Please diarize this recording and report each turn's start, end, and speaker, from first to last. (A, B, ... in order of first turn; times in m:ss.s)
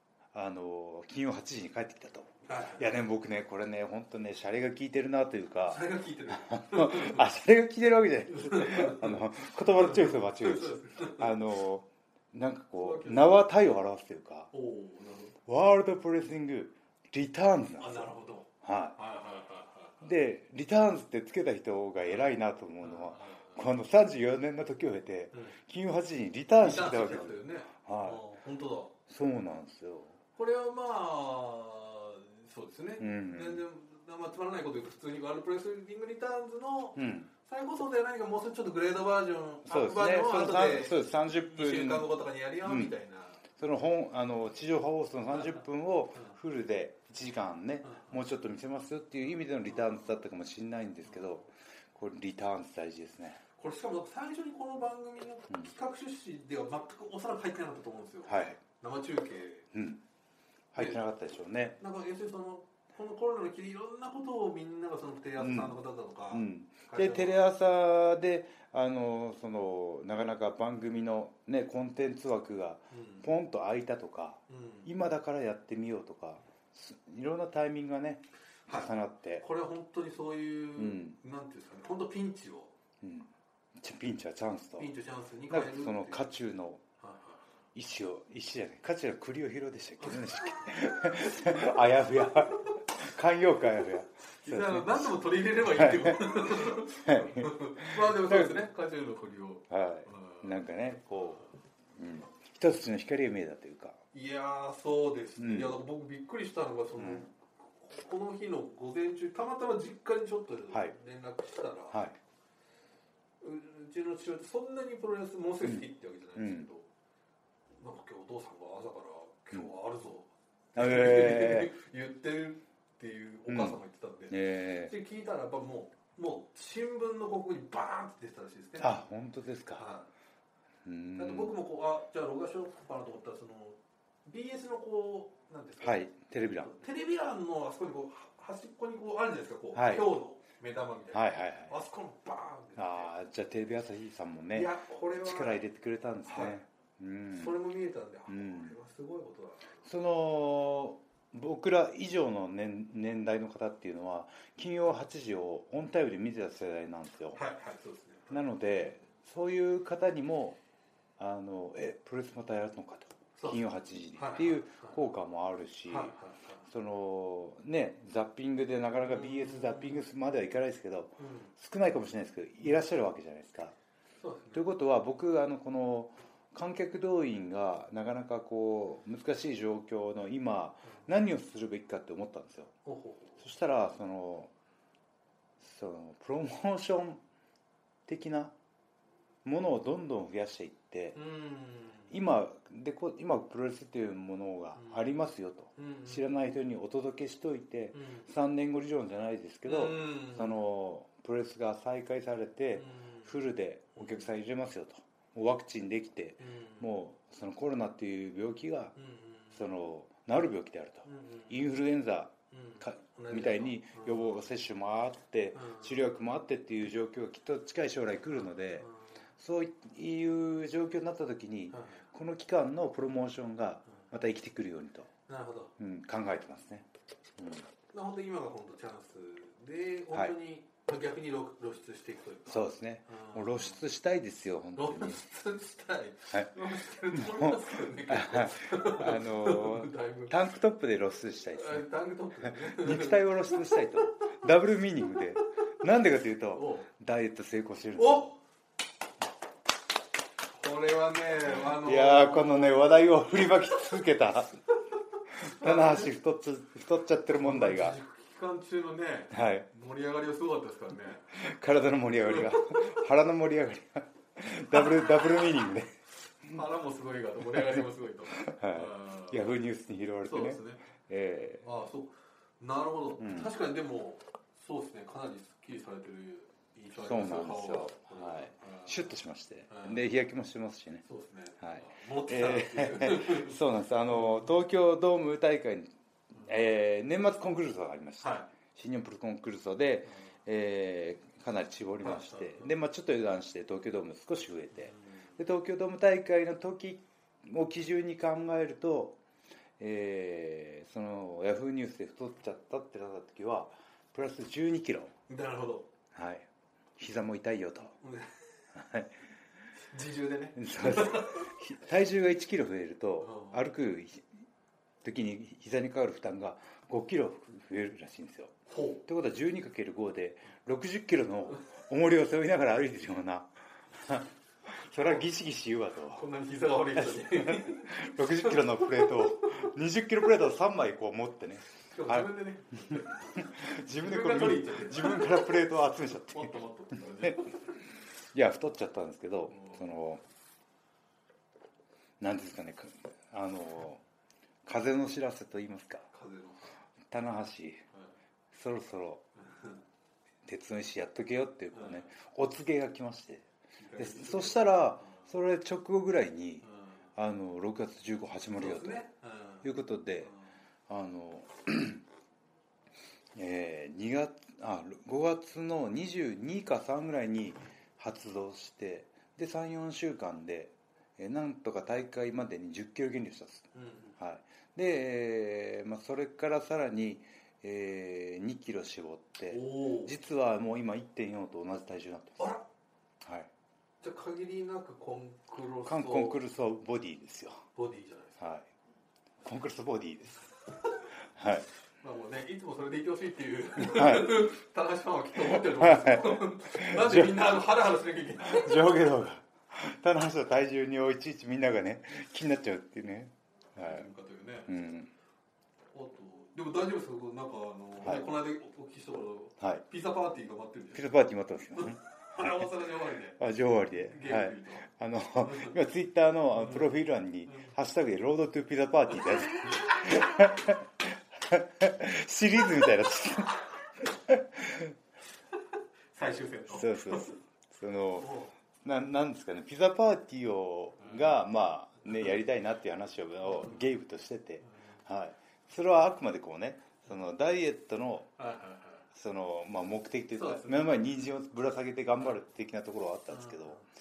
0:00.3-0:14.5 A
0:02.4-0:02.8 B
0:05.7-0:07.2 B
0:08.3-0:11.4 B
0:12.8-0:13.4 B
0:14.5-0:15.4 B
0:15.4-0:18.1 A
0:17.8-0:20.0 B
0:18.6-0:19.0 A
0:20.0-0:28.2 A
0:22.8-0:23.6 B
0:26.6-0:28.9 B
0:29.1-0:30.2 A
0:30.4-0:43.4 B
0:33.0-0:33.6 A
0:37.0-0:37.3 A
0:39.6-0:42.1 A
0:42.6-0:42.9 A
0:43.5-0:53.4 A
0:47.8-0:48.1 B
0:49.3-0:50.2 B
0:53.6-0:59.7 B
0:58.3-0:58.6 A
0:59.7-1:00.0 A
1:00.7-1:01.8 A
1:01.8-1:07.4 B
1:05.4-1:05.8 A
1:06.3-1:19.4 A
1:12.9-1:13.2 B
1:14.5-1:14.9 B
1:18.7-1:22.7 B
1:20.8-1:21.2 A
1:23.0-1:24.9 A
1:24.8-1:26.4 B
1:25.5-1:26.8 A
1:27.0-1:27.4 B
1:27.7-1:38.6 A
1:30.0-1:30.7 B
1:34.3-1:40.6 B
1:39.7-1:41.4 A
1:41.9-1:44.0 A
1:44.1-1:52.0 B
1:45.4-1:45.8 A
1:47.0-1:47.2 A
1:51.9-1:52.2 A
1:53.4-1:56.9 B
1:56.4-1:56.7 A
1:57.8-2:09.0 B
2:00.8-2:01.7 A
2:03.5-2:04.9 A
2:08.8-2:09.8 A
2:09.7-2:10.1 B
2:10.8-2:11.5 A
2:11.2-2:23.1 B
2:15.8-2:16.7 A
2:19.7-2:20.1 A
2:21.1-2:21.7 A
2:22.8-2:27.5 A
2:24.5-2:25.6 B
2:26.3-2:26.6 B
2:27.3-2:29.8 B
2:28.3-2:28.7 A
2:29.8-2:37.4 A
2:37.3-2:38.4 B
2:38.3-2:40.6 A
2:41.2-2:46.1 A
2:43.4-2:43.6 B
2:44.1-2:45.0 B
2:45.9-2:46.6 B
2:46.7-2:53.8 A
2:49.0-2:50.0 B
2:51.2-2:51.5 B
2:54.2-2:54.6 B
2:54.5-3:02.7 A
3:02.8-3:03.4 B
3:03.4-3:04.5 A
3:05.6-3:07.2 A
3:08.0-3:08.5 A
3:09.4-3:11.2 A
3:11.1-3:12.1 B
3:12.1-3:28.9 A
3:15.8-3:16.2 B
3:17.9-3:18.3 B
3:19.6-3:20.6 B
3:22.8-3:23.3 B
3:24.0-3:24.3 B
3:26.4-3:26.9 B
3:29.0-3:29.6 B
3:29.5-3:38.9 A
3:31.0-3:31.5 B
3:32.5-3:34.3 B
3:35.5-3:36.0 B
3:39.4-3:45.1 A
3:41.7-3:42.0 B
3:45.3-3:45.7 B
3:45.8-3:46.9 A
3:47.4-3:47.7 A
3:47.9-3:53.8 B
3:52.5-3:55.2 A
3:54.8-4:00.4 B
3:57.1-4:01.9 A
4:01.5-4:03.7 B
4:02.4-4:08.3 A
4:06.5-4:06.9 B
4:08.0-4:08.4 B
4:10.5-4:13.0 B
4:11.6-4:14.6 A
4:15.4-4:18.0 A
4:15.4-4:16.1 B
4:17.3-4:21.4 B
4:19.3-4:19.7 A
4:21.3-4:25.9 A
4:22.2-4:22.9 B
4:24.7-4:25.0 B
4:26.4-4:29.5 B
4:27.5-4:31.6 A
4:30.2-4:30.8 B
4:31.6-4:39.1 B
4:33.2-4:33.5 A
4:36.9-4:41.0 A
4:39.7-4:40.1 B
4:41.0-4:44.5 B
4:41.6-4:59.2 A
4:48.2-4:48.5 B
4:52.0-4:52.7 B
4:54.9-4:55.2 B
4:59.8-5:05.1 A
5:05.3-5:05.9 B
5:06.1-5:07.9 A
5:08.0-5:08.4 B
5:08.7-5:09.1 A
5:09.9-5:11.5 B
5:10.6-5:14.3 A
5:13.2-5:13.6 B
5:15.0-5:26.2 A
5:18.7-5:19.0 B
5:26.1-5:29.1 B
5:27.0-5:32.3 A
5:31.9-5:35.6 B
5:32.9-5:36.6 A
5:36.2-5:37.8 B
5:38.2-5:40.2 A
5:39.5-5:39.8 B
5:42.2-5:44.0 A
5:44.6-5:46.1 A
5:46.1-5:46.8 B
5:47.1-5:47.8 A
5:48.5-5:49.2 A
5:49.4-5:49.8 B
5:50.4-5:59.0 A
5:51.7-5:52.1 B
5:53.8-5:55.3 B
5:56.6-5:57.0 B
5:58.6-5:59.7 B
5:59.6-6:00.3 A
6:00.9-6:02.0 A
6:03.3-6:13.7 A
6:13.7-6:14.1 B
6:14.2-6:22.5 A
6:19.5-6:20.1 B
6:22.4-6:22.6 B
6:23.2-6:23.5 A
6:24.0-6:26.4 B
6:25.8-6:27.6 A
6:27.7-6:28.4 B
6:28.4-6:28.7 A
6:29.4-6:30.5 A
6:31.4-6:31.7 A
6:32.0-6:38.9 B
6:33.8-6:34.4 A
6:35.5-6:37.4 A
6:38.4-6:44.1 A
6:43.8-6:44.8 B
6:44.7-6:45.1 A
6:45.9-6:51.1 B
6:48.0-6:48.3 A
6:50.9-6:52.7 A
6:51.7-6:53.4 B
6:53.4-7:04.9 A
6:53.9-6:54.9 B
6:55.4-6:55.8 B
6:56.5-6:56.9 B
6:57.5-6:57.7 B
7:06.1-7:07.4 B
7:06.7-7:18.3 A
7:08.2-7:08.5 B
7:11.0-7:11.3 B
7:13.4-7:13.8 B
7:14.6-7:15.0 B
7:18.4-7:19.0 B
7:19.1-7:23.8 A
7:20.3-7:20.8 B
7:23.3-7:23.8 B